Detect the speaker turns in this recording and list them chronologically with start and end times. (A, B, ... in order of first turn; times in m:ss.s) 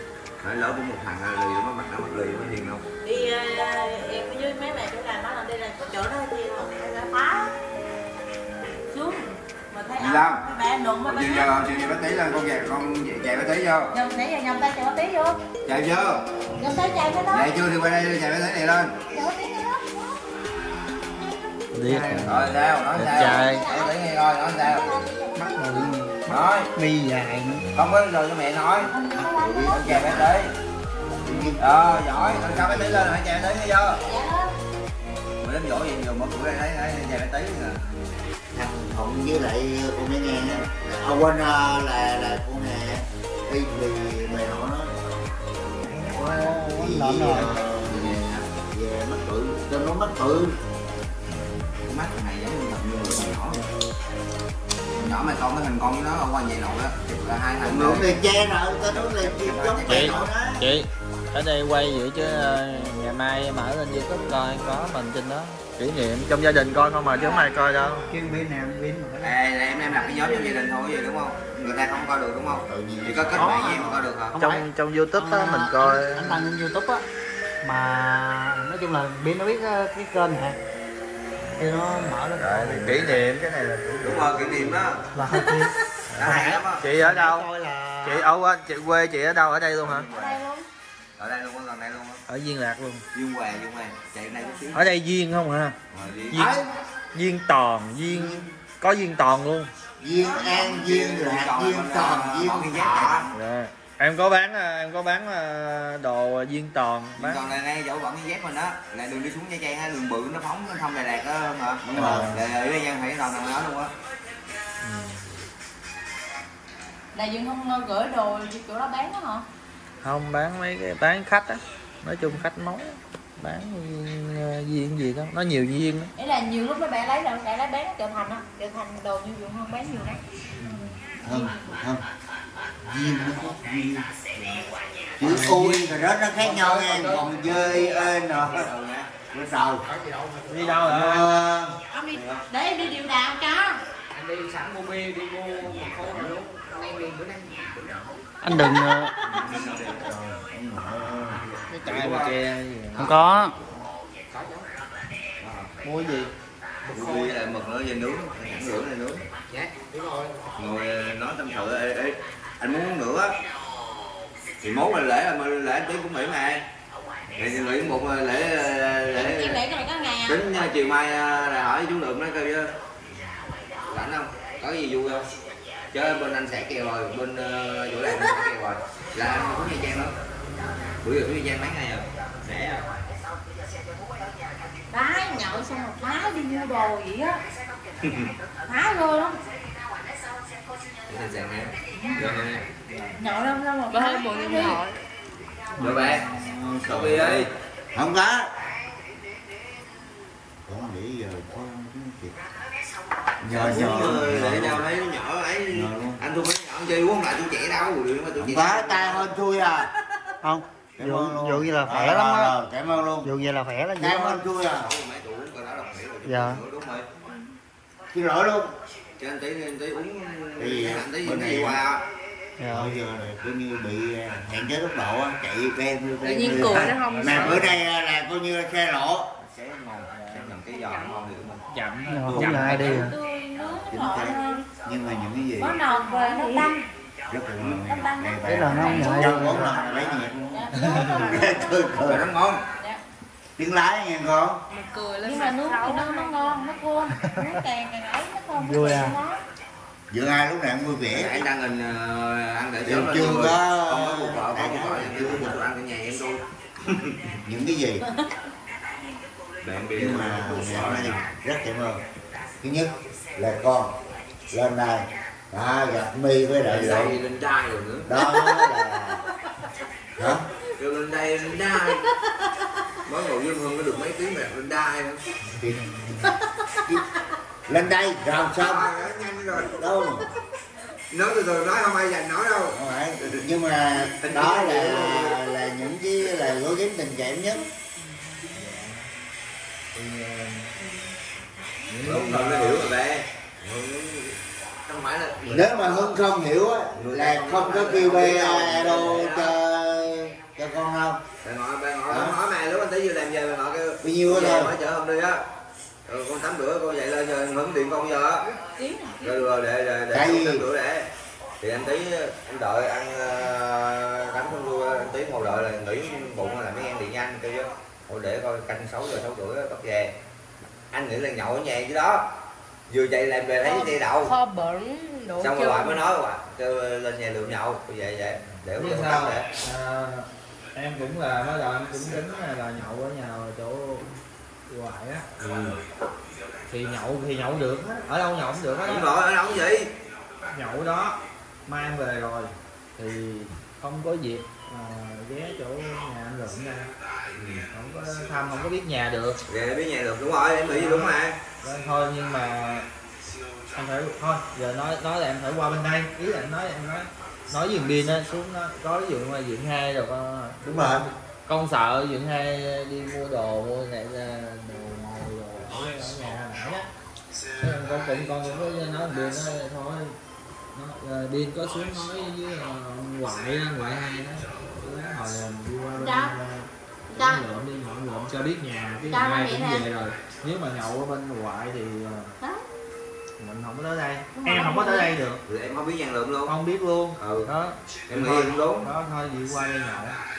0:00.4-0:02.8 A
0:03.0-0:07.5 B
0:08.9-0:11.7 B
0:10.0-0:10.4 A
0:11.0-0:13.9 A
0:13.9-0:15.4 B
0:15.6-0:16.2 A
0:16.6-0:17.5 B
0:17.3-0:18.9 A
0:19.1-0:19.8 B
0:21.7-0:22.3 C
0:21.8-0:22.5 D
0:22.2-0:24.9 A
0:22.9-0:23.6 C
0:23.1-0:24.0 B
0:24.6-0:25.9 B
0:25.3-0:26.2 D
0:26.3-0:26.7 A
0:26.7-0:27.6 D
0:27.7-0:30.5 A
0:28.8-0:29.9 B
0:29.1-0:30.4 E
0:31.2-0:33.1 E
0:31.6-0:34.0 A
0:34.0-0:34.5 B
0:35.4-0:37.8 A
0:38.5-0:44.9 E
0:46.0-0:47.5 D
0:46.2-0:50.6 E
0:47.8-0:48.4 A
0:51.8-0:53.7 A
0:55.0-1:00.3 A
0:57.6-1:00.6 E
0:59.9-1:08.1 C
1:07.1-1:07.5 B
1:08.0-1:09.4 D
1:09.2-1:14.4 A
1:12.7-1:14.0 E
1:13.4-1:17.0 D
1:14.4-1:16.4 C
1:17.6-1:20.6 D
1:21.6-1:23.2 D
1:22.4-1:24.7 C
1:24.0-1:25.0 A
1:24.1-1:28.3 D
1:26.1-1:27.5 C
1:26.2-1:26.8 A
1:28.0-1:30.1 C
1:29.8-1:30.4 A
1:30.0-1:30.6 B
1:31.2-1:32.2 A
1:32.3-1:33.0 C
1:33.1-1:34.8 A
1:34.7-1:35.8 C
1:35.9-1:36.6 A
1:36.3-1:36.6 C
1:36.3-1:36.6 E
1:37.1-1:39.7 C
1:38.0-1:38.5 E
1:40.0-1:43.3 E
1:40.2-1:40.6 B
1:40.3-1:43.3 A
1:43.3-1:47.4 C
1:47.2-1:53.9 A
1:51.8-1:52.4 E
1:52.0-1:52.4 C
1:54.8-1:55.2 C
1:57.1-1:59.4 B
2:00.0-2:06.1 C
2:06.2-2:10.2 B
2:11.2-2:12.0 E
2:12.8-2:14.1 E
2:15.2-2:18.7 E
2:15.2-2:15.8 D
2:17.0-2:19.1 A
2:19.3-2:19.8 E
2:19.8-2:20.9 F
2:20.5-2:21.3 C
2:20.8-2:21.8 E
2:21.9-2:23.8 B
2:22.1-2:22.4 A
2:24.1-2:28.0 F
2:28.4-2:29.1 D
2:29.2-2:30.1 A
2:29.3-2:31.6 E
2:31.7-2:33.2 C
2:31.8-2:32.3 A
2:32.9-2:33.5 D
2:34.3-2:34.7 F
2:35.4-2:35.7 A
2:35.8-2:36.3 C
2:36.8-2:37.4 F
2:36.9-2:39.2 A
2:39.5-2:40.7 F
2:40.6-2:43.3 A
2:44.6-2:46.6 A
2:47.4-2:49.6 A
2:49.1-2:50.5 B
2:50.2-2:52.7 A
2:53.9-2:55.3 A
2:55.9-3:00.1 A
3:01.0-3:02.8 A
3:04.9-3:07.4 B
3:08.0-3:08.3 A
3:08.7-3:09.4 B
3:11.1-3:12.6 A
3:13.2-3:14.8 B
3:13.9-3:15.0 G
3:15.8-3:16.2 A
3:16.2-3:18.5 E
3:16.8-3:17.5 A
3:20.7-3:22.4 E
3:23.4-3:24.9 E
3:23.5-3:29.3 A
3:25.7-3:26.2 E
3:28.4-3:29.9 E
3:30.4-3:32.5 D
3:31.0-3:33.3 E
3:33.2-3:34.4 D
3:34.0-3:34.9 E
3:34.7-3:37.0 A
3:36.2-3:36.6 D
3:38.1-3:38.7 E
3:39.2-3:42.0 A
3:40.6-3:41.8 E
3:42.6-3:42.9 D
3:42.7-3:49.3 E
3:46.2-3:47.6 G
3:46.4-3:47.0 B
3:47.0-3:47.6 C
3:49.4-3:51.6 A
3:50.1-3:50.5 C
3:51.7-3:53.1 C
3:52.1-3:53.1 D
3:52.3-3:53.0 A
3:52.7-3:54.6 B
3:53.8-3:55.8 E
3:55.6-3:56.9 B
3:55.9-3:56.7 G
3:57.3-4:02.3 E
3:57.8-4:01.9 B
3:58.4-3:59.9 D
4:00.9-4:01.6 G
4:02.0-4:02.6 A
4:02.7-4:03.0 B
4:03.6-4:04.6 E
4:04.7-4:06.7 G
4:05.2-4:09.4 B
4:08.6-4:09.2 D
4:10.1-4:11.4 E
4:11.1-4:17.2 A
4:12.8-4:15.6 E
4:17.4-4:18.0 E
4:19.6-4:21.2 A
4:19.9-4:22.0 E
4:22.6-4:24.0 E
4:24.5-4:27.2 E
4:26.6-4:28.4 A
4:28.0-4:29.2 E
4:30.2-4:30.4 E
4:30.8-4:32.0 A
4:33.0-4:35.3 A
4:35.5-4:36.3 E
4:37.7-4:38.9 E
4:38.6-4:39.8 A
4:39.6-4:40.2 E
4:41.1-4:43.4 A
4:42.7-4:47.7 E
4:44.2-4:45.4 A
4:48.5-4:49.1 C
4:49.9-4:50.7 C
4:51.9-4:52.9 C
4:52.0-4:56.2 A
4:55.4-5:01.2 E
4:56.9-4:59.5 A
5:01.4-5:05.4 A
5:02.1-5:02.4 E
5:04.0-5:04.8 E
5:06.0-5:08.5 A
5:08.4-5:09.4 B
5:09.2-5:11.1 A
5:10.1-5:10.7 E
5:11.6-5:20.1 A
5:20.9-5:22.2 A
5:22.9-5:24.3 A
5:23.7-5:25.9 B
5:24.3-5:25.9 G
5:25.4-5:29.4 A
5:28.8-5:34.1 C
5:34.7-5:35.3 C
5:35.4-5:35.8 A
5:36.7-5:39.1 C
5:38.8-5:39.9 A
5:40.5-5:46.9 C
5:47.3-5:47.6 A
5:47.7-5:49.4 C
5:49.5-5:51.4 A
5:50.7-5:52.9 C
5:53.7-6:06.9 C
6:00.6-6:01.0 E
6:07.6-6:10.2 C
6:10.7-6:22.3 C
6:16.0-6:16.4 B
6:17.1-6:17.4 B
6:19.1-6:19.8 B
6:23.4-6:25.4 C
6:24.3-6:25.1 B
6:25.5-6:26.5 A
6:26.4-6:30.2 C
6:27.2-6:27.5 A
6:28.1-6:28.9 A